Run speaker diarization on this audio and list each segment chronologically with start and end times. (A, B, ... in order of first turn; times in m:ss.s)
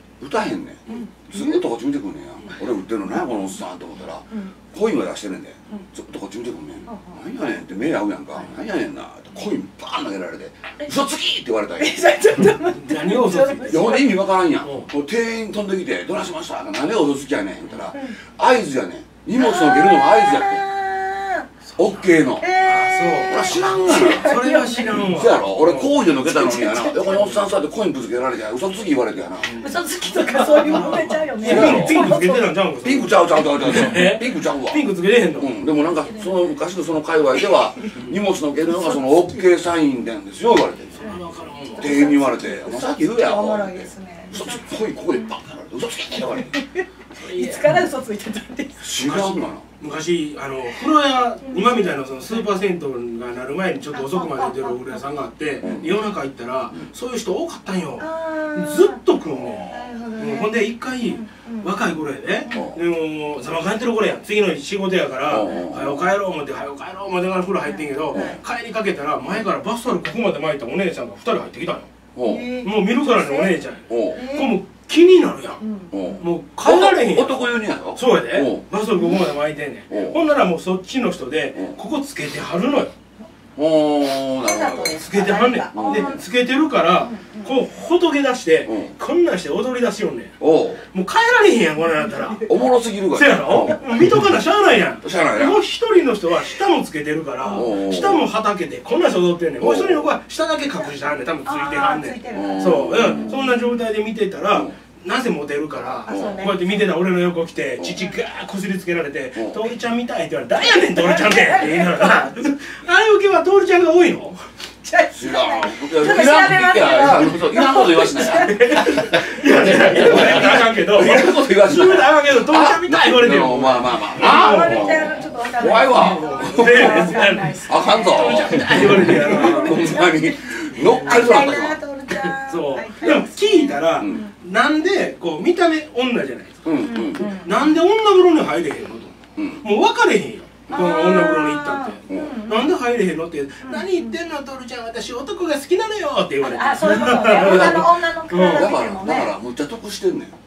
0:00.2-0:12.0 A
0:00.9-0:01.6 B
0:06.9-0:07.2 B
0:11.8-0:14.1 B
0:12.6-0:14.0 C
0:13.7-0:20.7 A
0:14.6-0:14.9 C
0:19.4-0:21.5 B
0:21.7-0:26.2 C
0:21.8-0:22.5 A
0:22.4-0:25.0 B
0:23.3-0:24.3 A
0:25.0-0:29.6 A
0:26.2-0:27.3 B
0:27.0-0:27.5 C
0:29.4-0:35.5 C
0:29.6-0:32.5 B
0:31.4-0:32.0 A
0:32.8-0:34.8 A
0:35.4-0:41.2 A
0:35.8-0:36.3 B
0:38.7-0:39.3 B
0:41.0-0:42.1 C
0:41.0-0:45.3 B
0:41.8-0:46.5 A
0:46.3-0:48.9 B
0:47.2-0:47.9 C
0:48.8-0:49.7 A
0:49.0-1:11.9 C
0:51.4-0:52.5 B
0:53.9-0:55.1 B
0:55.6-0:56.0 A
0:58.0-1:01.8 B
1:02.4-1:02.7 B
1:02.5-1:02.8 A
1:05.3-1:06.0 A
1:05.5-1:05.7 B
1:07.6-1:08.4 B
1:08.1-1:08.4 A
1:12.2-1:12.5 A
1:12.2-1:13.6 B
1:12.6-1:15.6 C
1:13.9-1:14.2 A
1:14.1-1:14.6 B
1:15.6-1:16.2 B
1:15.9-1:18.7 A
1:16.2-1:22.9 C
1:19.0-1:19.2 B
1:19.9-1:20.2 A
1:23.6-1:25.0 A
1:24.4-1:26.2 B
1:25.0-1:30.4 C
1:25.7-1:26.2 A
1:27.0-1:27.6 B
1:28.7-1:29.0 A
1:30.4-1:30.9 A
1:30.9-1:32.4 C
1:31.8-1:32.6 B
1:32.5-1:34.0 A
1:33.1-1:54.4 C
1:35.0-1:35.6 A
1:37.4-1:37.7 B
1:37.5-1:38.2 A
1:39.6-1:40.1 A
1:41.4-1:43.8 B
1:42.3-1:43.4 A
1:46.0-1:46.8 B
1:46.1-1:46.5 A
1:47.9-1:48.2 B
1:49.4-1:49.6 A
1:50.8-1:52.4 B
1:54.8-1:59.0 B
1:55.1-2:11.8 A
1:56.1-1:57.3 C
1:58.2-2:05.1 C
2:04.2-2:14.3 B
2:05.9-2:10.0 C
2:10.8-2:11.3 C
2:12.2-2:28.7 C
2:14.0-2:14.2 A
2:16.6-2:17.3 A
2:16.8-2:17.8 B
2:19.4-2:19.6 A
2:20.7-2:22.7 B
2:22.1-2:22.4 A
2:23.6-2:24.2 B
2:26.4-2:29.4 B
2:26.9-2:30.3 A